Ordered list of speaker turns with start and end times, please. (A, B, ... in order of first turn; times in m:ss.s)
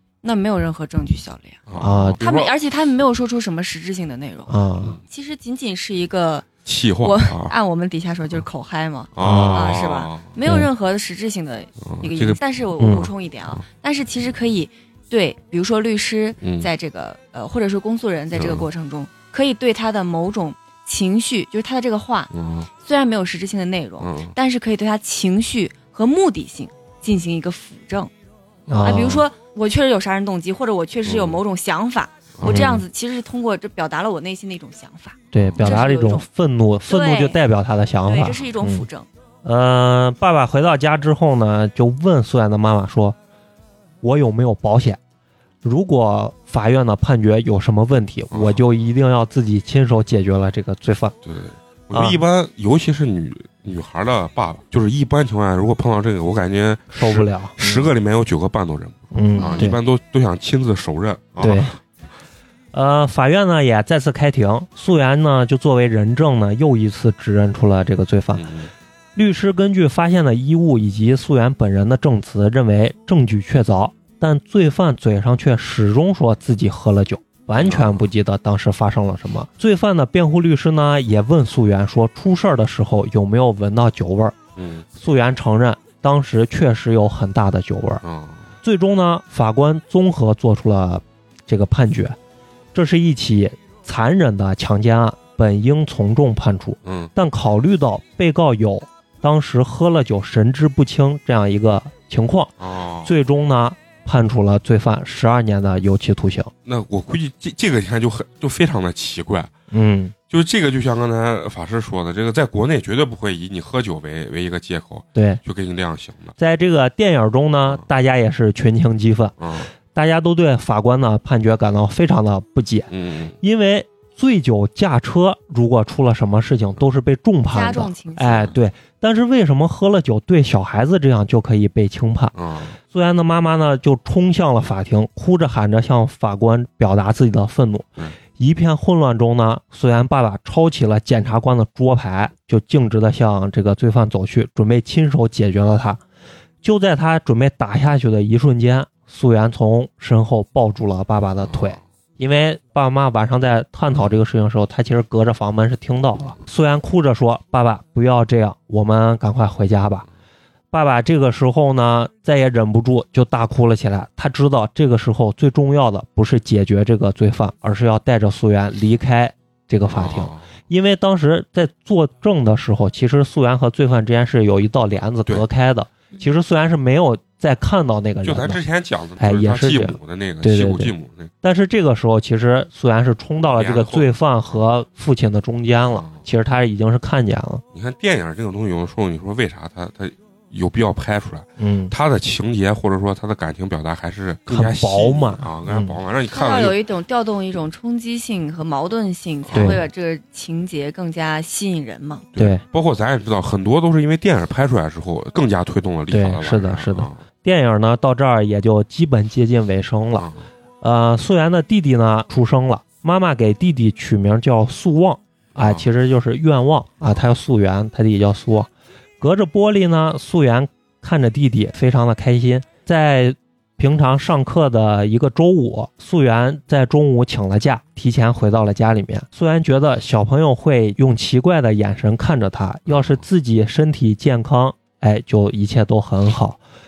0:00.2-0:01.6 A
0:01.7-0:02.5 B
0:01.8-0:02.2 C
0:02.2-0:06.5 A
0:04.5-0:05.0 C
0:06.6-0:07.5 B
0:07.0-0:28.1 A
0:09.2-0:10.3 B
0:09.2-0:09.7 C
0:11.8-0:12.4 B
0:12.8-0:13.1 C
0:16.4-0:16.7 B
0:18.3-0:18.6 B
0:22.3-0:22.7 B
0:24.0-0:24.3 B
0:28.7-0:29.2 C
0:28.7-0:29.1 B
0:28.8-0:36.2 A
0:31.0-0:31.4 B
0:32.4-0:32.8 B
0:32.4-0:32.8 C
0:35.3-0:38.8 C
0:35.4-0:35.6 B
0:36.9-0:37.4 A
0:38.0-0:39.1 A
0:39.4-0:43.2 C
0:44.0-0:45.0 C
0:45.6-0:51.2 C
0:48.3-0:48.6 B
0:51.2-1:01.7 B
0:51.9-0:52.2 C
0:56.9-0:57.9 C
0:59.1-0:59.8 C
0:59.4-0:59.7 A
1:01.4-1:01.8 C
1:02.7-1:08.5 C
1:08.3-1:08.7 B
1:09.2-1:24.4 C
1:17.6-1:18.0 B
1:24.6-1:24.8 B
1:25.0-1:28.0 C
1:28.0-1:28.5 B
1:28.6-1:32.2 C
1:32.7-1:42.5 C
1:36.8-1:37.1 B
1:42.6-1:43.1 B
1:43.0-1:46.5 C
1:46.6-1:49.5 B
1:49.7-1:50.1 C
1:50.3-1:56.3 B
1:55.1-1:55.4 C
1:56.4-1:59.4 C
1:59.4-1:59.7 B
1:59.9-2:02.9 C
2:02.9-2:03.3 B
2:03.4-2:12.3 C
2:07.5-2:08.6 A
2:12.4-2:12.8 B
2:12.9-2:26.0 C
2:26.6-2:40.0 C
2:31.4-2:31.8 B
2:40.7-2:58.6 C
2:49.9-2:50.4 B
2:58.2-3:01.3 B
2:59.2-3:07.6 C
3:03.5-3:04.1 B
3:05.9-3:06.2 B
3:07.7-3:16.8 B
3:11.6-3:11.9 C
3:14.5-3:15.9 C
3:16.3-3:22.2 A
3:19.5-3:19.8 B
3:19.5-3:19.8 C
3:22.3-3:27.2 B
3:22.4-3:22.6 C
3:26.1-3:30.3 C
3:30.2-3:30.4 B
3:30.8-3:56.6 C
3:35.6-3:35.8 B
3:52.9-3:53.2 B